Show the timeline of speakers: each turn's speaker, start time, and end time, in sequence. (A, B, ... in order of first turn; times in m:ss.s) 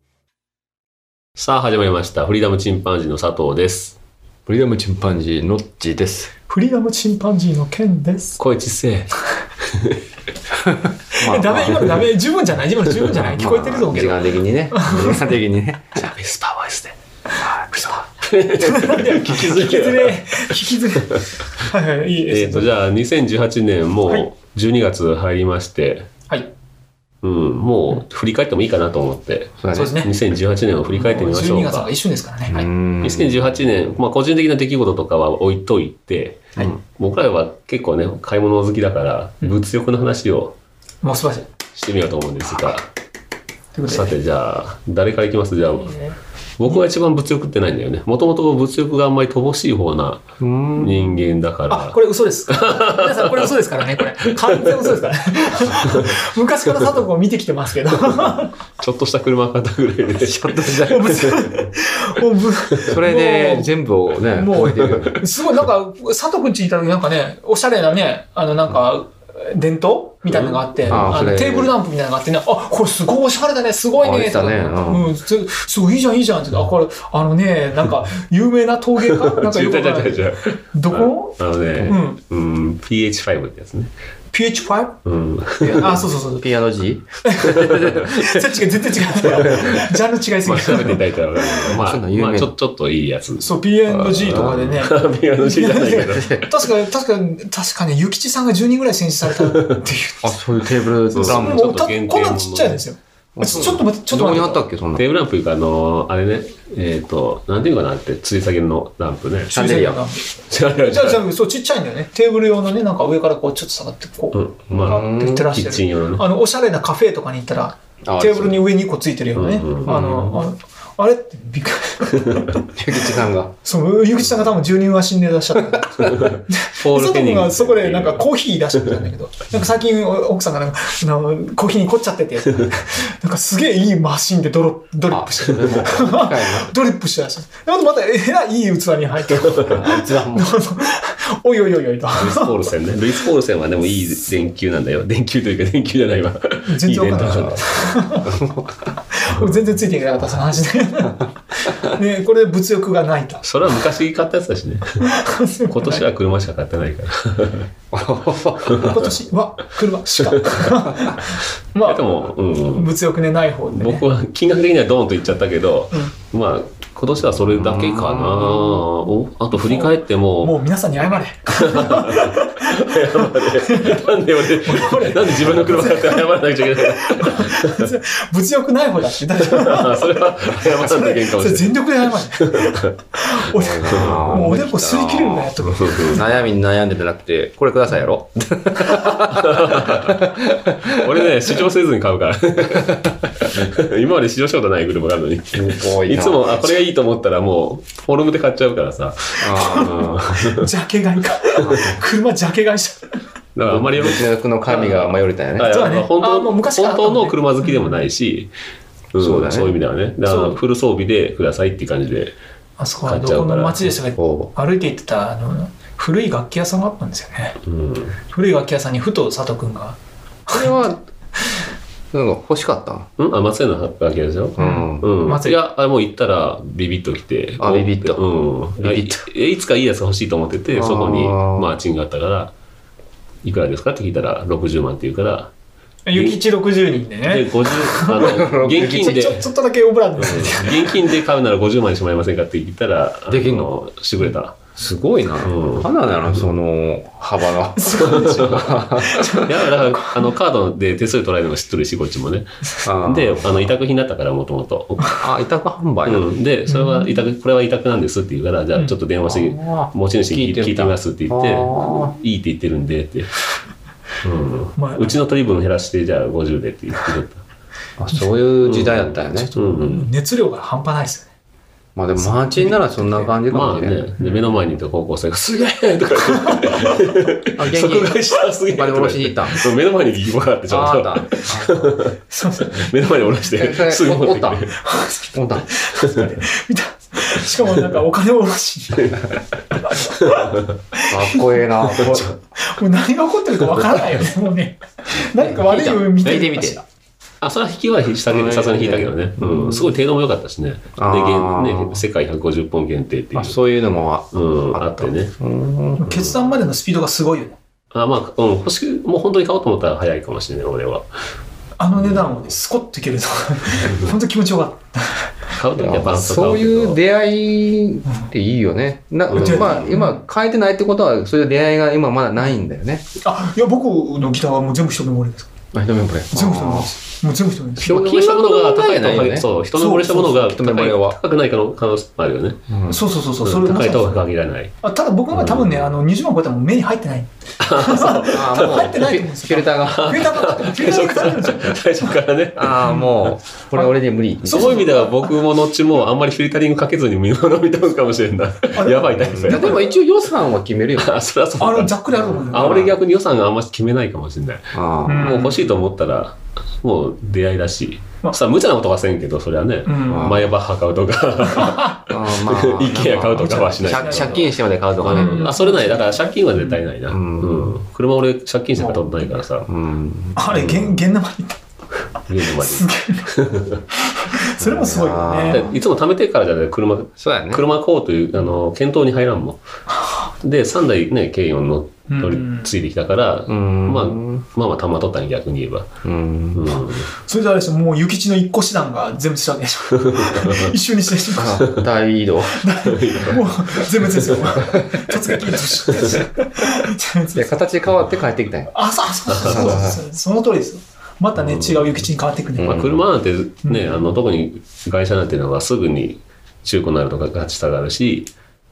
0:01.4-0:03.9 A
0:04.4-0:06.3 B
0:06.5-0:08.4 C
0:08.4-0:09.1 A
0:09.6-0:10.0 A
0:10.6-0:12.0 B
0:11.1-0:14.2 C
0:13.2-0:16.0 B
0:13.9-0:14.3 A
0:14.7-0:15.3 C
0:16.0-0:16.9 A
0:17.6-0:17.8 B
0:17.7-0:20.2 A
0:18.6-0:22.7 C
0:22.3-0:26.1 A
0:27.2-0:31.9 A
0:29.6-0:30.0 B
0:29.7-0:30.1 C
0:30.9-0:32.7 C
0:32.5-0:33.5 B
0:33.0-0:40.5 A
0:41.0-0:41.5 C
0:41.7-0:42.8 A
0:43.7-0:44.1 C
0:43.9-0:46.0 A
0:45.7-0:46.2 C
0:46.6-0:50.2 A
0:50.4-0:51.2 B
0:50.8-0:52.0 A
0:51.7-0:58.5 C
0:52.5-0:54.9 A
0:55.8-0:56.2 A
0:58.8-1:01.7 A
1:00.2-1:01.2 B
1:00.8-1:03.7 C
1:02.9-1:05.2 B
1:04.3-1:22.2 C
1:04.7-1:05.2 A
1:10.3-1:11.1 A
1:10.9-1:11.7 B
1:14.0-1:15.1 B
1:19.0-1:23.9 A
1:24.3-1:25.0 C
1:25.0-1:25.9 A
1:25.6-1:26.5 C
1:25.6-1:28.5 B
1:27.2-1:31.4 C
1:27.6-1:28.0 A
1:29.2-1:29.9 A
1:29.2-1:29.6 B
1:30.4-1:33.5 A
1:31.5-1:32.5 B
1:33.4-1:40.4 C
1:33.9-1:34.8 B
1:34.2-1:36.5 A
1:39.4-1:39.8 A
1:40.2-1:41.6 B
1:41.1-1:44.6 C
1:41.1-1:42.8 A
1:43.4-1:45.0 B
1:45.0-1:49.5 A
1:49.5-1:50.0 B
1:49.5-1:50.2 C
1:50.5-1:51.2 A
1:50.8-2:03.1 C
1:54.3-1:56.2 A
1:54.7-1:55.5 B
1:58.0-1:58.6 B
1:59.3-2:00.4 A
2:02.7-2:03.5 B
2:03.6-2:22.6 C
2:06.1-2:08.2 A
2:15.1-2:16.7 B
2:19.4-2:19.7 A
2:19.7-2:20.5 B
2:22.1-2:27.7 A
2:26.6-2:28.4 C
2:27.2-2:27.6 B
2:28.2-2:28.7 B
2:29.1-2:33.4 C
2:33.4-2:35.1 A
2:35.0-2:36.0 C
2:35.7-2:37.7 A
2:37.9-2:39.0 B
2:38.7-2:38.9 A
2:38.7-2:42.2 C
2:40.2-2:40.8 A
2:41.8-2:42.9 A
2:42.7-2:44.0 C
2:43.7-2:50.6 A
2:47.5-2:48.8 B
2:49.5-3:06.2 C
2:51.5-2:57.9 A
2:59.4-3:01.8 A
3:02.4-3:02.8 A
3:03.4-3:11.3 B
3:03.9-3:04.4 A
3:05.6-3:06.3 A
3:08.9-3:10.3 A
3:10.8-3:20.7 A
3:15.5-3:16.7 B
3:19.4-3:20.2 B
3:19.5-3:23.2 C
3:21.6-3:21.9 A
3:23.6-3:28.5 A
3:23.7-3:25.7 B
3:25.6-3:28.0 C
3:29.1-3:32.3 A
3:29.2-3:29.7 B
3:30.2-3:30.6 C
3:32.8-3:37.6 C
3:33.0-3:33.9 A
3:34.2-3:34.5 B
3:37.6-3:38.2 A
3:38.3-3:41.6 C
3:40.5-3:41.0 B
3:42.1-3:43.1 B
3:43.2-3:52.5 A
3:44.6-3:45.1 B
3:44.6-3:45.6 C
3:47.6-3:48.2 B
3:48.8-3:49.2 B
3:50.7-3:51.8 B
3:53.4-3:55.5 A
3:56.0-4:01.1 C
3:56.1-3:56.4 A
3:57.2-3:59.5 A
3:58.2-3:59.2 B
4:00.2-4:04.6 A
4:03.3-4:03.7 B
4:04.8-4:09.4 B
4:05.4-4:06.4 A
4:07.8-4:10.3 C
4:08.0-4:08.7 A
4:09.2-4:15.2 A
4:12.8-4:13.6 B
4:15.2-4:16.2 B
4:16.0-4:23.3 A
4:16.7-4:17.2 C
4:19.2-4:22.1 B
4:24.2-4:27.4 A
4:24.8-4:25.2 C
4:28.0-4:29.5 B
4:28.6-4:30.1 A
4:29.5-4:31.3 C
4:32.0-4:34.0 B
4:32.2-4:33.3 C
4:33.5-4:44.8 A
4:37.6-4:39.6 B
4:40.7-4:42.0 B
4:42.3-4:42.9 C
4:43.5-4:44.7 B
4:44.8-4:49.2 C
4:45.3-4:45.7 B
4:48.9-4:49.4 A
4:49.8-4:56.8 C
4:51.1-4:52.3 B
4:55.5-4:56.8 B
4:57.4-5:03.6 A
4:58.3-4:59.9 B
5:01.0-5:02.0 B
5:03.3-5:06.3 B
5:04.3-5:05.3 A
5:06.0-5:07.6 C
5:07.9-5:11.1 A
5:11.8-5:15.3 C
5:12.0-5:12.2 A
5:13.8-5:14.1 A
5:15.5-5:17.0 A
5:15.8-5:23.0 B
5:19.3-5:20.0 A
5:19.3-5:20.2 C
5:23.2-5:25.5 C
5:25.7-5:26.9 B
5:26.3-5:27.9 C
5:27.8-5:32.6 A
5:27.8-5:29.5 B
5:29.8-5:30.4 C
5:30.1-5:31.2 B
5:32.7-5:33.0 B
5:32.9-5:34.2 C
5:33.4-5:34.7 A
5:34.8-5:42.1 C
5:35.3-5:35.9 A
5:37.6-5:39.0 A
5:38.3-5:40.2 B
5:39.8-5:43.0 A
5:42.6-5:44.9 B
5:42.8-5:43.2 C
5:44.4-5:45.3 C
5:44.4-5:49.8 A
5:48.7-5:50.0 C
5:49.3-5:51.2 B
5:51.0-6:09.7 A
5:51.6-5:52.9 C
5:52.1-5:52.9 B
5:54.7-5:55.4 B
5:55.0-5:55.6 C
5:59.8-6:00.4 C
6:00.1-6:00.5 B
6:01.5-6:02.0 C
6:02.1-6:05.5 B
6:03.4-6:04.5 C
6:05.1-6:06.8 C
6:07.1-6:07.7 B
6:08.8-6:09.3 C
6:09.6-6:10.8 B
6:10.4-6:11.6 C
6:10.5-6:10.8 A
6:12.3-6:13.8 A
6:12.4-6:13.3 C
6:13.9-6:15.7 C
6:14.6-6:15.7 B
6:15.5-6:19.6 A
6:17.2-6:17.6 B
6:19.9-6:20.3 C
6:20.4-6:25.9 A
6:22.1-6:22.7 C
6:23.5-6:24.4 B
6:26.0-6:26.8 B
6:26.5-6:27.1 A
6:26.7-6:31.7 C
6:30.0-6:30.7 A
6:31.3-6:32.6 B
6:32.5-6:37.6 C
6:32.8-6:34.5 A
6:35.9-6:36.2 A
6:37.3-6:38.7 B
6:38.7-6:42.8 C
6:39.3-6:39.8 A
6:39.3-6:40.0 B
6:41.4-6:42.0 A
6:42.6-6:43.0 B
6:42.6-6:48.3 A
6:43.6-6:44.0 C